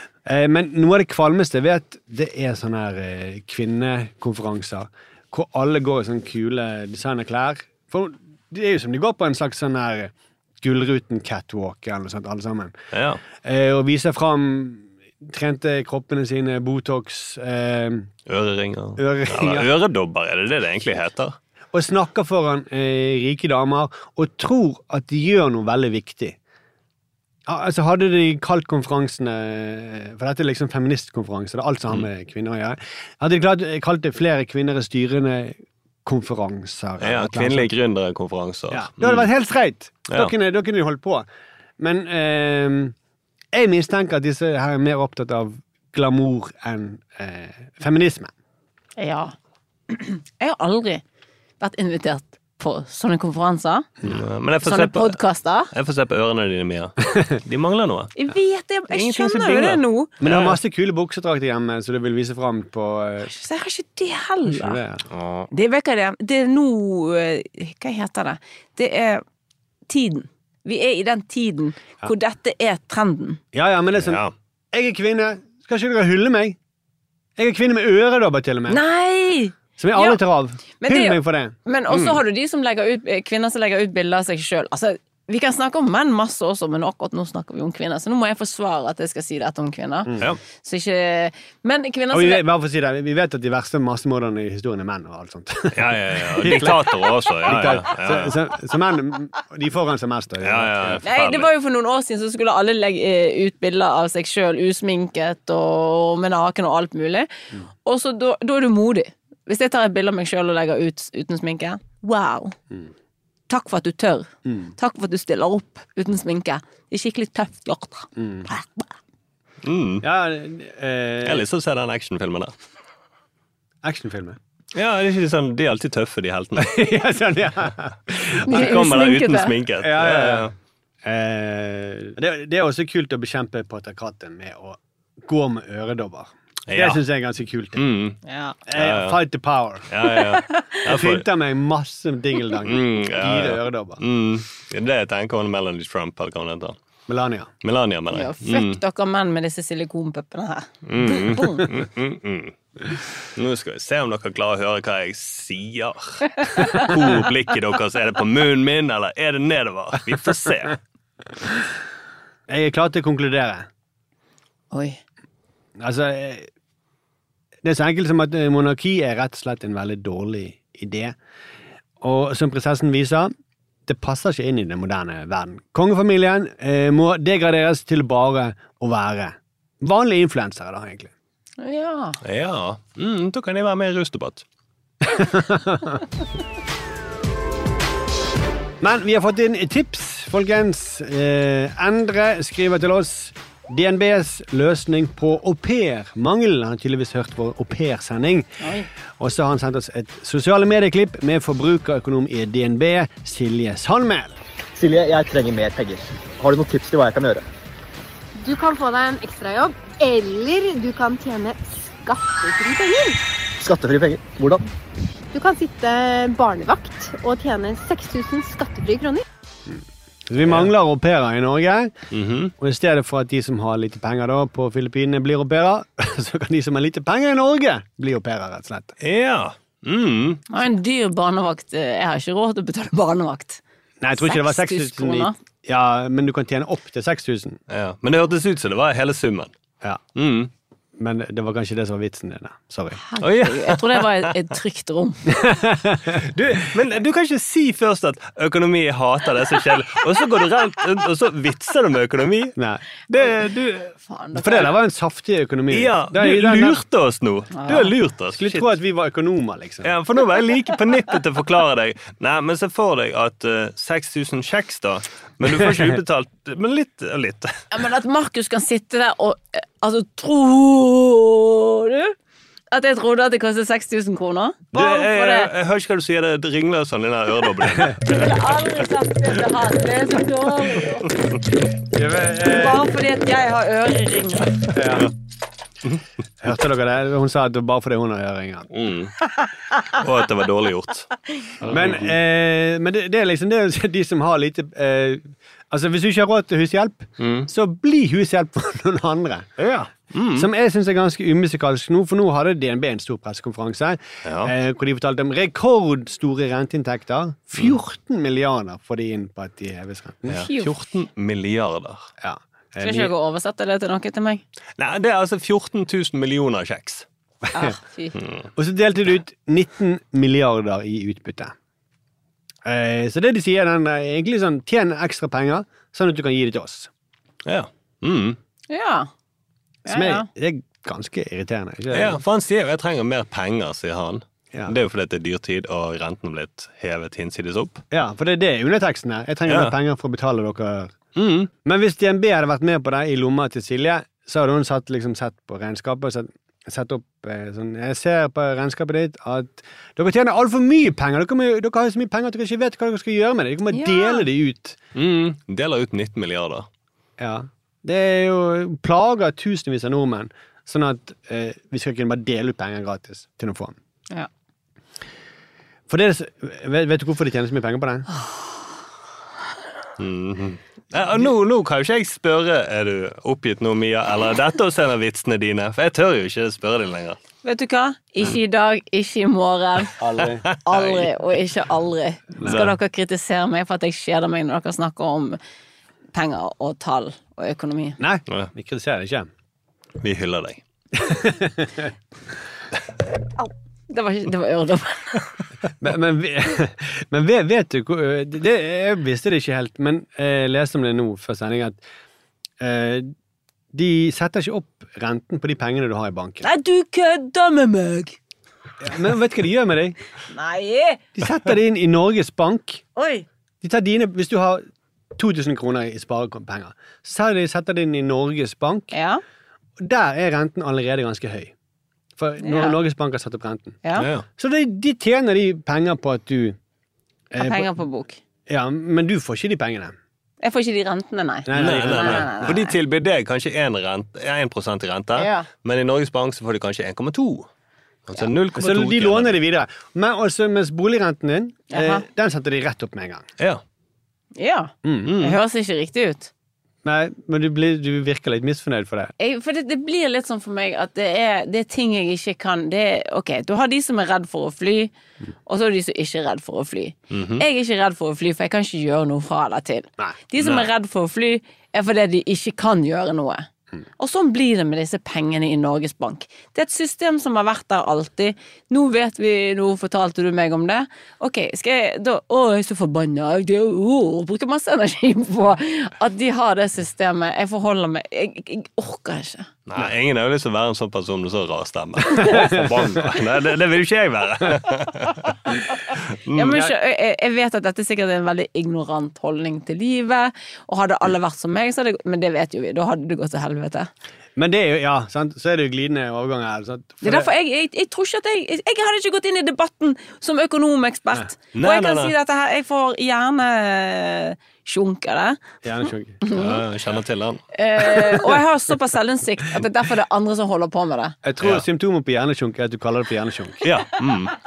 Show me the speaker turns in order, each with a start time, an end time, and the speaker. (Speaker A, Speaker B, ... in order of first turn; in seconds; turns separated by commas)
Speaker A: 0.2-12.8, Speaker B: 12.9-13.2, Speaker A: 13.4-18.1, Speaker B: 18.3-21.4, Speaker A: 19.0-19.7, Speaker A: 21.7-26.4, Speaker A: 27.4-37.7, Speaker B: 37.0-39.3, Speaker A: 38.7-41.2, Speaker B: 40.1-40.3, Speaker A: 41.8-42.9, Speaker A: 43.5-48.3, Speaker C: 49.0-49.3, Speaker C: 49.9-51.0, Speaker C: 51.6-53.9, Speaker B: 54.0-55.2, Speaker C: 54.6-55.7, Speaker B: 55.7-58.1, Speaker C: 58.1-60.1, Speaker B: 58.9-60.6, Speaker A: 60.2-63.3, Speaker C: 63.2-64.8, Speaker A: 64.5-65.0, Speaker B: 65.1-65.5, Speaker C: 65.5-69.2, Speaker C: 69.9-73.4, Speaker A: 73.5-76.6, Speaker B: 74.0-74.3, Speaker A: 77.4-78.8, Speaker C: 78.7-80.2, Speaker A: 79.8-81.5, Speaker C: 80.8-92.4, Speaker A: 92.1-101.0, Speaker B: 95.7-98.3, Speaker B: 100.4-101.5, Speaker C: 101.0-107.3, Speaker C: 107.8-112.5, Speaker C: 113.5-118.9, Speaker A: 118.2-118.5, Speaker B: 119.6-120.0, Speaker A: 120.0-121.4, Speaker B: 121.2-122.5, Speaker A: 123.8-124.4, Speaker B: 124.7-126.7, Speaker A: 126.6-128.9, Speaker C: 128.4-129.6, Speaker B: 128.5-130.5, Speaker A: 129.8-130.5, Speaker A: 131.0-137.8, Speaker B: 136.7-137.0, Speaker B: 137.8-138.2, Speaker C: 138.2-138.6, Speaker A: 138.7-139.9, Speaker B: 138.7-139.2, Speaker B: 139.9-141.2, Speaker C: 140.2-140.8, Speaker A: 140.8-144.0, Speaker B: 142.6-146.8, Speaker A: 147.1-147.5, Speaker B: 147.6-148.8, Speaker C: 148.1-151.6, Speaker B: 150.8-160.8, Speaker A: 162.5-163.7, Speaker C: 164.7-165.0, Speaker A: 165.8-166.5, Speaker A: 167.6-171.1, Speaker A: 172.0-173.3, Speaker A: 173.8-181.1, Speaker C: 181.6-182.2, Speaker B: 182.2-184.4, Speaker A: 185.0-186.0, Speaker A: 188.8-198.5, Speaker C: 198.6-198.9, Speaker A: 199.2-204.3, Speaker D: 204.8-207.4, Speaker E: 208.4-213.2, Speaker D: 213.6-214.7, Speaker E: 215.3-219.2, Speaker A: 219.7-221.9, Speaker B: 220.4-220.7, Speaker B: 222.1-222.5, Speaker A: 222.6-228.9, Speaker B: 229.0-230.4, Speaker C: 230.5-233.6, Speaker A: 234.0-237.6, Speaker C: 234.2-235.3, Speaker B: 237.7-239.5, Speaker B: 240.1-240.5, Speaker A: 241.0-243.0, Speaker C: 243.0-245.3, Speaker B: 243.2-244.4, Speaker A: 245.3-246.2, Speaker B: 246.2-252.5, Speaker A: 252.6-252.8, Speaker B: 253.1-253.9, Speaker C: 254.1-254.7, Speaker A: 254.3-256.8, Speaker B: 255.7-258.7, Speaker C: 257.5-257.9, Speaker A: 258.3-259.9, Speaker B: 259.8-267.6, Speaker C: 267.7-272.1, Speaker C: 272.7-275.5, Speaker B: 274.7-278.5, Speaker C: 278.0-281.1, Speaker A: 281.9-282.9, Speaker C: 282.4-284.7, Speaker A: 284.7-285.1, Speaker A: 286.4-288.7, Speaker B: 288.7-289.1, Speaker B: 290.0-291.1, Speaker B: 291.6-292.1, Speaker A: 291.7-299.6, Speaker B: 297.2-297.5, Speaker B: 299.6-300.5, Speaker A: 300.3-310.4, Speaker B: 304.2-304.5, Speaker B: 310.3-312.1, Speaker C: 310.4-310.7, Speaker A: 312.2-313.1, Speaker C: 312.8-314.4, Speaker B: 314.8-317.0, Speaker C: 317.5-318.1, Speaker B: 318.1-318.5, Speaker A: 318.6-321.5, Speaker A: 322.6-326.9, Speaker B: 327.4-328.4, Speaker C: 328.7-329.1, Speaker A: 329.9-332.2, Speaker C: 329.9-330.3, Speaker B: 331.9-337.8, Speaker A: 337.9-340.9, Speaker B: 339.5-339.7, Speaker B: 341.1-341.5, Speaker A: 341.6-354.8, Speaker C: 353.7-354.2, Speaker B: 354.9-356.7, Speaker A: 357.2-363.8, Speaker A: 365.9-368.1, Speaker B: 370.0-377.2, Speaker C: 377.4-379.9, Speaker A: 380.0-380.5, Speaker B: 380.5-381.1, Speaker C: 380.6-385.4, Speaker A: 382.4-382.7, Speaker B: 382.4-382.7, Speaker C: 386.1-388.0, Speaker A: 388.0-389.3, Speaker B: 390.0-390.6, Speaker A: 390.9-391.9, Speaker C: 393.4-395.2, Speaker A: 395.8-401.8, Speaker A: 402.6-403.1, Speaker A: 403.7-406.5, Speaker C: 406.4-408.2, Speaker A: 408.8-409.9, Speaker C: 410.3-411.0, Speaker A: 411.2-412.8, Speaker C: 412.9-413.2, Speaker A: 413.6-414.6, Speaker A: 415.2-418.9, Speaker C: 418.9-419.2, Speaker A: 419.8-421.5, Speaker A: 422.2-423.8, Speaker C: 422.4-422.8, Speaker B: 423.9-424.2, Speaker A: 424.4-426.6, Speaker A: 427.3-427.7, Speaker C: 427.4-428.2, Speaker A: 428.5-429.9, Speaker C: 430.4-432.7, Speaker A: 431.4-432.5, Speaker B: 431.5-437.5, Speaker C: 435.1-435.5, Speaker B: 438.1-439.4, Speaker A: 438.5-443.2, Speaker C: 441.7-442.0, Speaker C: 444.4-446.3, Speaker A: 444.8-445.1, Speaker B: 445.1-445.4, Speaker A: 446.8-449.1, Speaker C: 449.2-454.9, Speaker C: 455.4-463.5, Speaker B: 457.1-457.4, Speaker B: 460.4-460.7, Speaker C: 464.0-479.5, Speaker B: 479.7-486.7, Speaker A: 482.2-482.8, Speaker C: 486.4-493.9, Speaker A: 494.4-497.3, Speaker C: 497.0-505.4, Speaker B: 501.5-502.1, Speaker A: 505.6-506.2, Speaker C: 506.2-506.6, Speaker B: 506.3-508.2, Speaker C: 507.5-511.2, Speaker A: 511.2-513.6, Speaker B: 511.4-511.6, Speaker B: 513.6-514.3